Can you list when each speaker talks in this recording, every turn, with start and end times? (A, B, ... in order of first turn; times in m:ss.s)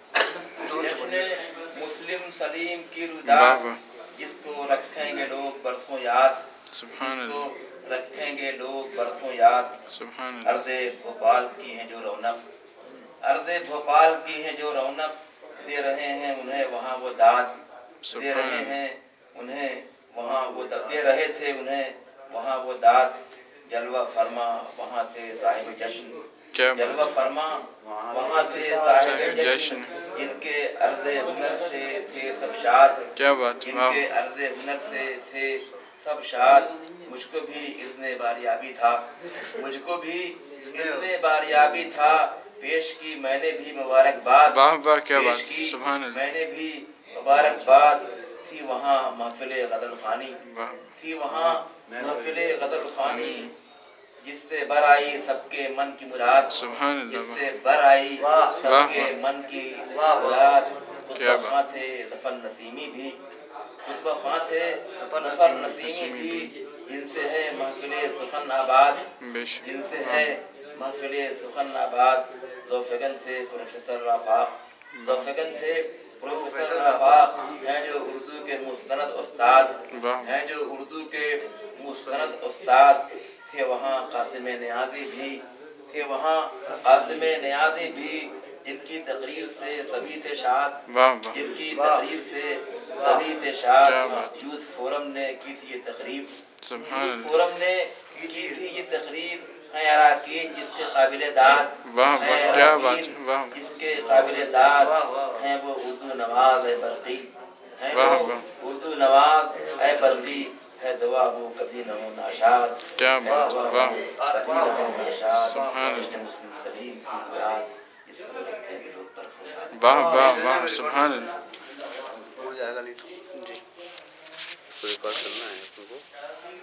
0:00.4-0:06.4 A
0:00.6-0:01.2 B
0:03.2-0:03.8 C
0:06.7-0:07.4 C
0:07.0-0:09.8 A
0:09.9-0:10.6 C
0:10.4-0:12.4 A
0:13.2-0:33.1 A
0:18.0-0:18.8 C
0:26.5-0:27.1 C
0:27.8-0:29.2 B
0:29.0-0:29.9 C
0:33.2-0:34.0 C
0:33.6-0:50.4 A
0:40.6-0:41.1 B
0:44.5-0:46.2 C
0:50.4-0:50.9 C
0:51.0-0:53.5 A
0:51.3-0:52.4 B
0:53.0-0:53.5 C
0:54.2-1:03.2 A
0:56.5-0:57.4 C
0:58.2-0:58.6 B
0:58.6-0:59.1 C
0:59.9-1:00.6 B
1:01.2-1:01.5 C
1:03.8-1:09.1 A
1:05.0-1:05.8 B
1:05.7-1:06.5 C
1:09.2-1:10.3 C
1:09.6-2:00.1 A
1:14.9-1:15.3 C
1:16.3-1:17.6 B
1:19.9-1:20.3 C
1:22.1-1:22.3 B
1:26.7-1:27.2 B
1:30.9-1:31.4 C
1:31.5-1:32.0 B
1:32.9-1:33.2 B
1:33.8-1:34.3 C
1:36.6-1:37.4 C
1:38.1-1:38.6 B
1:41.8-1:43.6 C
1:42.2-1:42.6 B
1:44.2-1:45.4 B
1:47.9-1:48.4 C
1:49.7-1:50.3 B
1:53.0-1:54.0 C
1:53.3-1:56.2 B
1:55.5-1:56.2 C
1:59.7-2:01.4 C
1:59.9-2:01.3 B
2:02.1-2:03.6 B
2:04.8-2:06.0 B